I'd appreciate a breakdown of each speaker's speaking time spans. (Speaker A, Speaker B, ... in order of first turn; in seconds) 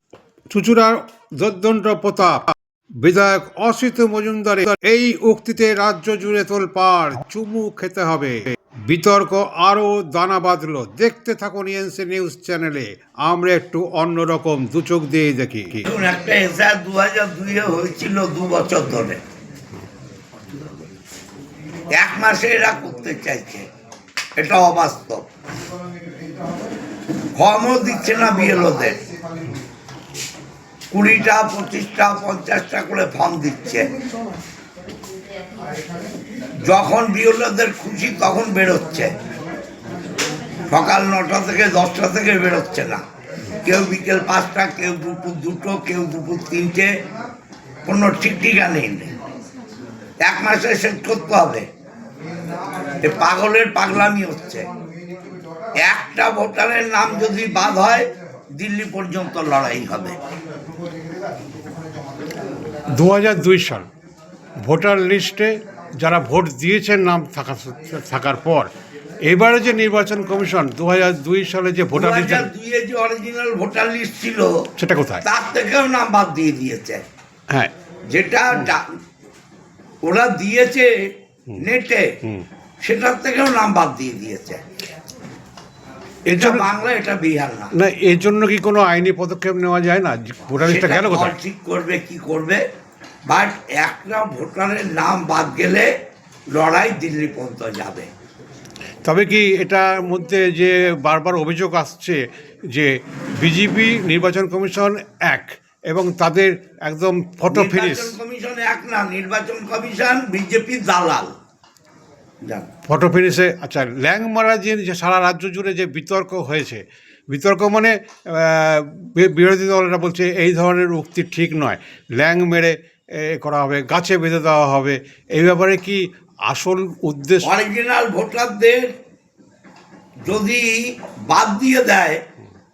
Speaker A: 0.5-2.5, 3.0-15.8, 63.0-63.9, 64.6-68.7, 69.2-72.5, 74.8-75.2, 86.3-86.7, 87.8-91.3, 99.0-108.2, 112.9-127.5
Speaker B: 15.8-19.2, 21.9-23.6, 24.4-25.2, 27.4-29.0, 30.9-33.9, 36.6-39.1, 40.7-43.0, 43.6-46.9, 47.8-49.1, 50.2-51.6, 53.0-54.7, 55.8-60.2, 71.9-74.5, 75.2-77.0, 78.1-78.8, 80.0-80.9, 81.6-82.0, 82.8-84.6, 86.3-87.7, 90.6-92.6, 93.3-95.9, 96.5-98.1, 107.5-111.3, 127.4-128.9, 130.2-132.2